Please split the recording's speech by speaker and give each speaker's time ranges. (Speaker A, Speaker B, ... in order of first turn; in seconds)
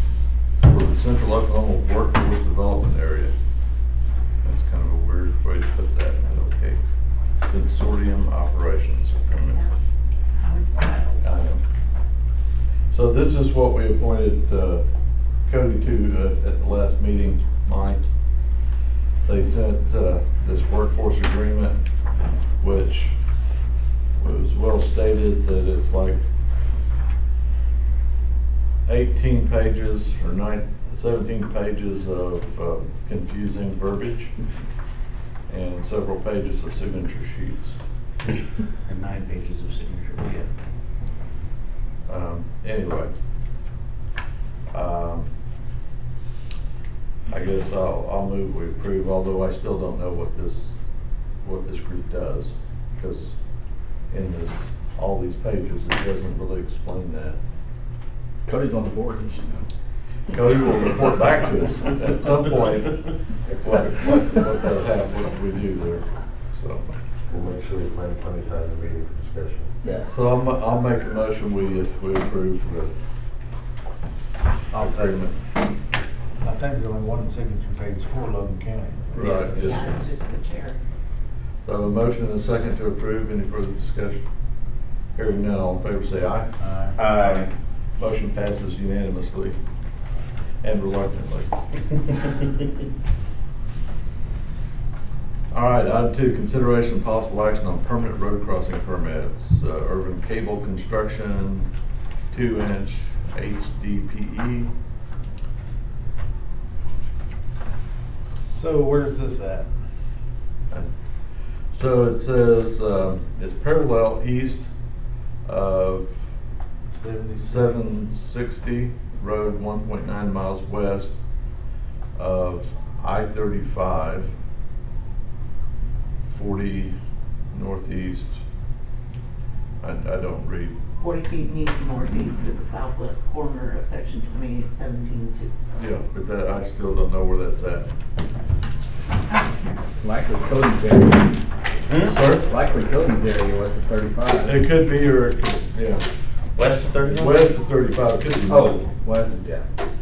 Speaker A: 0.6-3.3, 4.4-6.8, 7.5-9.6, 11.2-11.6, 12.9-14.8, 15.4-18.0, 19.2-21.8, 22.6-23.1, 24.2-26.2, 28.9-34.3, 35.5-37.8, 42.1-43.1, 44.7-45.3, 47.3-50.8, 51.4-53.4, 54.1-57.4, 60.3-63.0, 63.5-66.8, 70.0-72.9, 74.8-75.3, 79.1-79.8, 81.6-84.2, 85.1-86.5, 88.0-89.5, 90.6-91.5, 95.5-101.7, 102.3-104.7, 111.7-114.7, 115.4-116.1, 117.4-121.1, 122.2-124.3, 126.3-126.9, 127.5-128.4, 129.8-130.7, 135.8-137.9, 142.0-142.5, 144.4-146.0, 147.1-148.8
Speaker B: 9.5-11.2, 79.6-80.8, 131.0-135.5, 139.3-139.7
Speaker C: 38.8-40.5, 79.2-79.7, 86.9-87.5, 141.9-142.2, 146.5-147.4
Speaker D: 58.5-59.6, 140.0-141.3, 142.4-144.6, 148.5-149.6
Speaker E: 67.3-69.7
Speaker F: 74.7-75.2, 76.4-79.2, 86.6-87.0, 108.5-109.8, 116.9-117.9